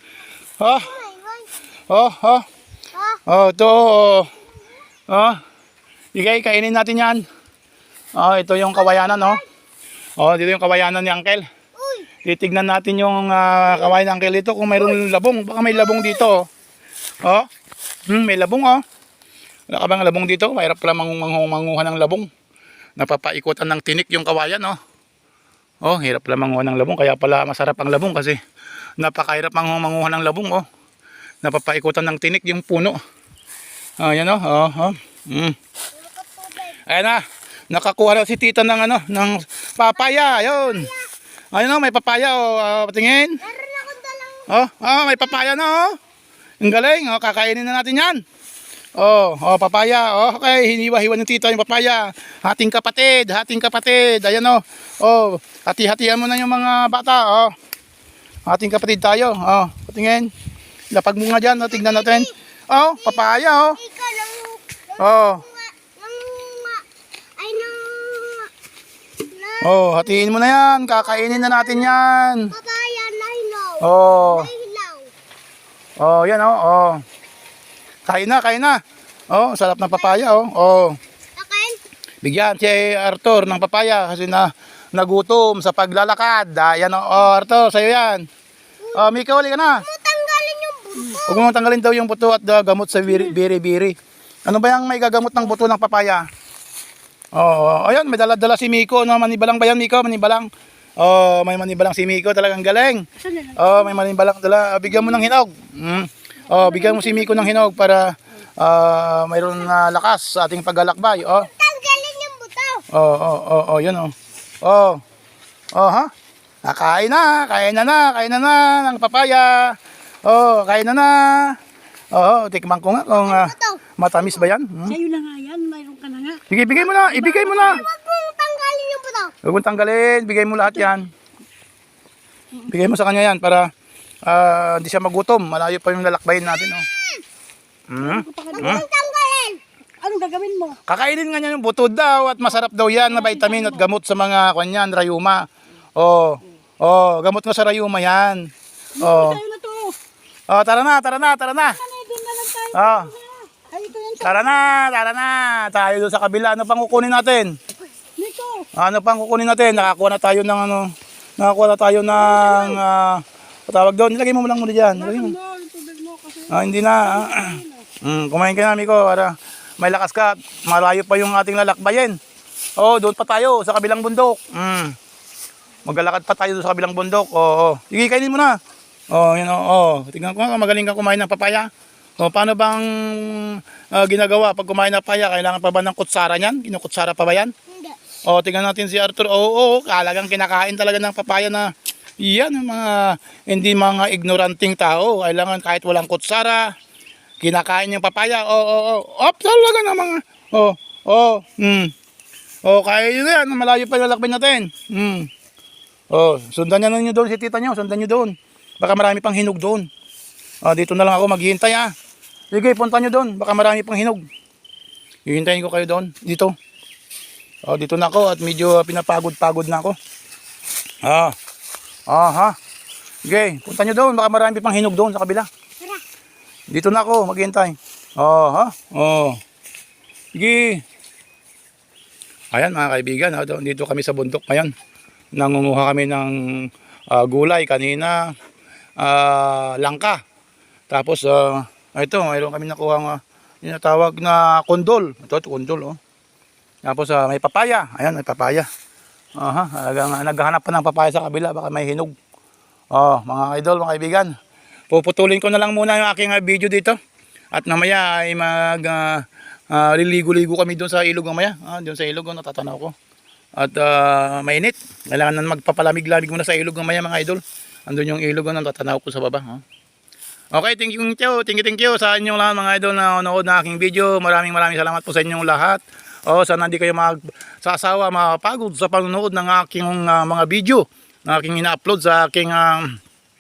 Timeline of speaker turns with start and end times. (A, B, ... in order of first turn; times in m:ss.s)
0:00.6-0:01.0 A
0:00.8-0:01.5 B
0:01.9-0:02.4 A
0:02.9-0:03.2 B
0:03.3-0:04.3 A
0:05.1-0:05.4 A
0:06.2-0:07.2 A
0:08.2-0:09.4 A
0:08.8-0:09.4 B
0:10.2-0:11.4 A
0:11.8-0:12.1 B
0:12.2-0:16.5 A
0:15.9-0:16.3 B
0:18.1-0:18.8 A
0:19.7-0:22.3 A
0:23.0-0:24.8 A
0:25.8-0:28.4 A
0:29.0-0:30.6 A
0:31.4-0:33.0 A
0:34.0-0:35.6 A
0:35.9-0:36.8 B
0:36.9-0:40.9 A
0:40.0-0:41.1 B
0:41.5-0:43.4 A
0:43.4-0:44.5 B
0:44.5-0:46.0 A
0:46.6-0:48.2 A
0:49.0-0:57.5 A
0:58.5-1:00.3 A
1:00.9-1:03.8 A
1:01.7-1:02.3 B
1:03.0-1:06.8 B
1:05.0-1:05.4 A
1:07.4-1:08.5 B
1:09.2-1:15.1 B
1:09.6-1:12.5 A
1:13.8-1:14.5 A
1:16.0-1:17.0 A
1:18.1-1:18.8 A
1:19.3-1:21.0 A
1:21.4-1:21.8 B
1:22.2-1:28.2 A
1:28.8-1:29.1 B
1:29.0-1:29.8 A
1:29.6-1:31.4 B
1:31.2-1:36.2 A
1:37.4-1:51.5 A
1:43.2-1:43.8 C
1:46.6-1:47.6 C
1:51.4-1:52.8 B
1:52.9-1:54.1 A
1:54.6-1:55.0 A
1:55.7-1:56.1 A
1:56.6-2:01.6 A
2:02.1-2:05.0 A
2:03.2-2:03.8 B
2:04.9-2:06.4 C
2:06.5-2:07.8 A
2:06.8-2:09.3 B
2:09.4-2:11.1 A
2:12.6-2:13.7 A
2:14.2-2:16.9 A
2:16.8-2:17.2 B
2:17.9-2:18.8 A
2:18.0-2:18.7 C
2:18.5-2:19.6 B
2:20.0-2:20.8 C
2:20.9-2:25.4 A
2:23.1-2:23.8 C
2:26.0-2:28.5 A
2:29.0-2:29.9 C
2:29.0-2:29.4 A
2:30.5-2:31.8 A
2:31.6-2:34.7 C
2:32.7-2:33.1 A
2:34.2-2:37.6 A
2:38.2-2:38.7 C
2:38.7-2:45.4 A
2:42.2-2:42.8 C
2:45.0-2:47.9 C
2:46.5-2:52.2 A
2:52.8-2:54.9 A
2:55.9-2:58.6 A
2:59.1-3:01.7 A
3:02.2-3:07.5 A
3:07.7-3:08.0 B
3:08.3-3:11.7 A
3:12.2-3:16.6 A
3:17.4-3:21.9 A
3:22.6-3:25.3 A
3:26.1-3:29.9 A
3:30.6-3:31.9 A
3:32.5-3:34.2 A
3:35.2-3:36.5 A
3:37.6-3:39.9 A
3:41.0-3:41.4 A
3:42.1-3:42.5 A
3:43.2-3:45.5 A
3:46.7-3:49.4 A
3:50.4-3:50.8 A
3:52.5-3:54.7 A
3:55.4-3:58.3 A
3:59.0-4:00.2 A
4:00.9-4:06.0 A
4:06.8-4:08.7 A
4:09.4-4:12.1 A
4:12.9-4:14.3 A
4:14.9-4:17.0 A
4:17.5-4:22.9 A
4:23.6-4:29.6 A
4:30.5-4:43.0 A